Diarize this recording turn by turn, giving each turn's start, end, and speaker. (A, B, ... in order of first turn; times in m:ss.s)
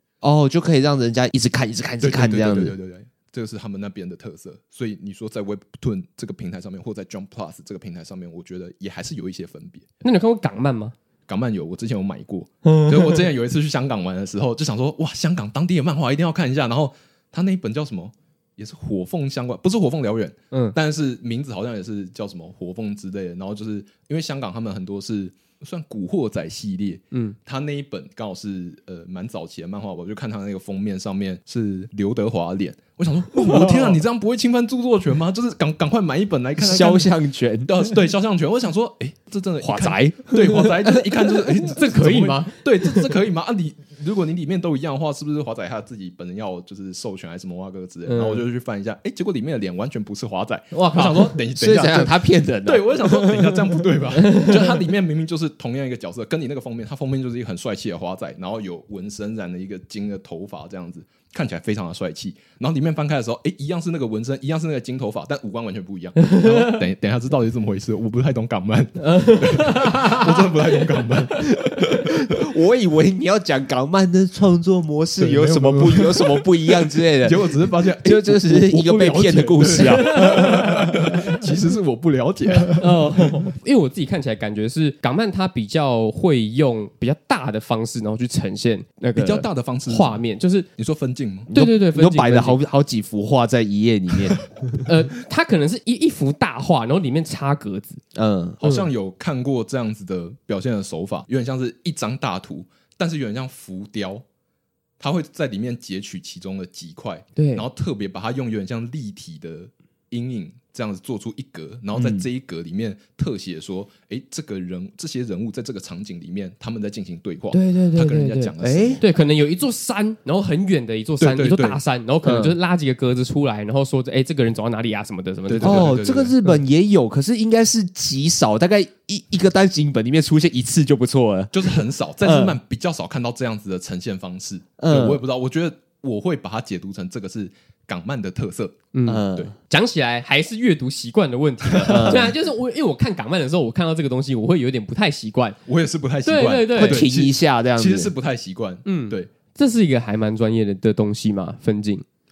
0:00.2-0:02.7 A
0:02.0-0:09.8 B
0:10.0-0:10.9 C
0:11.3-0:37.1 B
0:12.6-0:13.2 C
0:33.5-0:33.9 A
0:36.6-0:38.0 A
0:37.7-1:12.4 B
0:39.6-0:41.2 A
0:41.6-0:43.1 C
0:48.1-0:48.4 C
0:50.7-0:51.3 C
0:51.0-0:53.8 A
0:54.2-0:54.6 C
1:06.2-1:06.8 C
1:09.0-1:10.7 C
1:11.6-1:21.4 A
1:15.2-1:22.9 B
1:19.8-1:20.7 C
1:22.8-1:30.6 C
1:29.2-1:30.2 B
1:30.8-1:31.5 B
1:31.5-1:34.9 A
1:31.5-1:32.6 C
1:34.8-1:38.0 C
1:38.1-1:38.6 A
1:38.6-1:44.2 B
1:45.0-1:59.0 B
1:47.4-1:47.6 C
1:51.9-1:52.3 A
1:57.5-2:05.9 C
1:58.6-1:59.0 A
2:01.2-2:01.8 B
2:02.2-2:02.5 A
2:05.5-2:06.3 B
2:05.6-2:12.6 A
2:11.5-2:19.5 B
2:14.8-2:15.2 A
2:18.9-2:25.6 C
2:19.0-2:19.5 A
2:21.6-2:22.3 B
2:21.9-2:22.3 A
2:25.6-2:29.3 B
2:26.2-2:27.0 C
2:26.8-2:28.1 A
2:28.8-2:32.0 C